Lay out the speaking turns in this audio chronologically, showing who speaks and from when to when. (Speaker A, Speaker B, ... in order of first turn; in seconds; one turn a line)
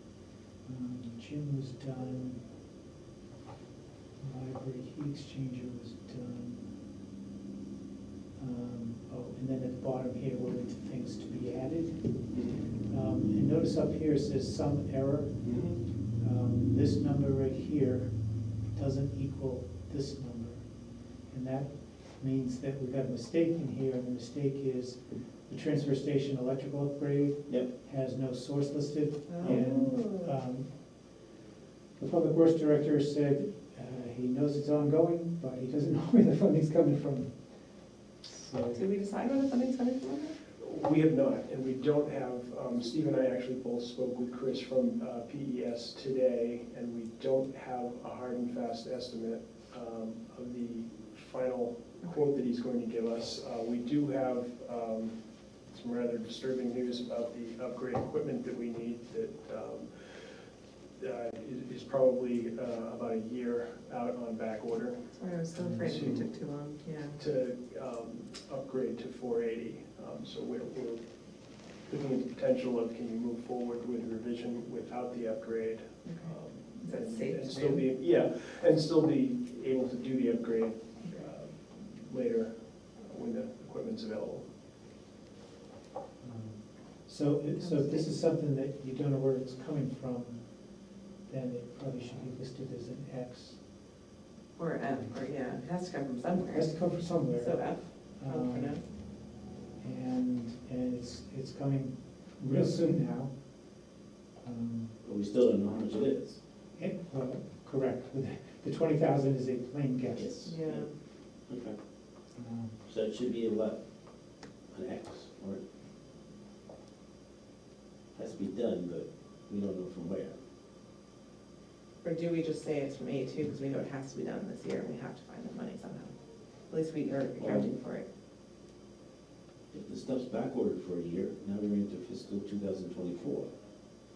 Speaker A: 0.6-2.4
Speaker A: 4.2-6.7
Speaker A: 8.4-30.9
Speaker B: 12.3-12.6
Speaker B: 15.4-15.8
Speaker C: 29.3-30.3
Speaker A: 32.0-38.8
Speaker C: 38.7-40.4
Speaker D: 40.6-55.1
Speaker D: 55.7-60.4
Speaker D: 61.0-65.1
Speaker C: 65.1-67.2
Speaker A: 65.6-66.2
Speaker D: 65.8-66.3
Speaker D: 67.2-84.5
Speaker C: 76.0-77.9
Speaker C: 81.0-81.3
Speaker A: 86.2-93.7
Speaker C: 87.6-88.1
Speaker C: 94.6-98.9
Speaker A: 96.4-99.0
Speaker A: 99.8-103.3
Speaker A: 104.4-105.0
Speaker B: 105.0-106.4
Speaker A: 106.8-110.3
Speaker B: 110.2-110.9
Speaker C: 110.5-110.9
Speaker B: 111.5-111.8
Speaker A: 112.4-112.8
Speaker B: 112.9-113.8
Speaker B: 114.7-115.6
Speaker B: 118.2-120.4
Speaker C: 122.0-126.1
Speaker C: 126.7-128.1
Speaker B: 127.4-127.7
Speaker B: 129.7-133.5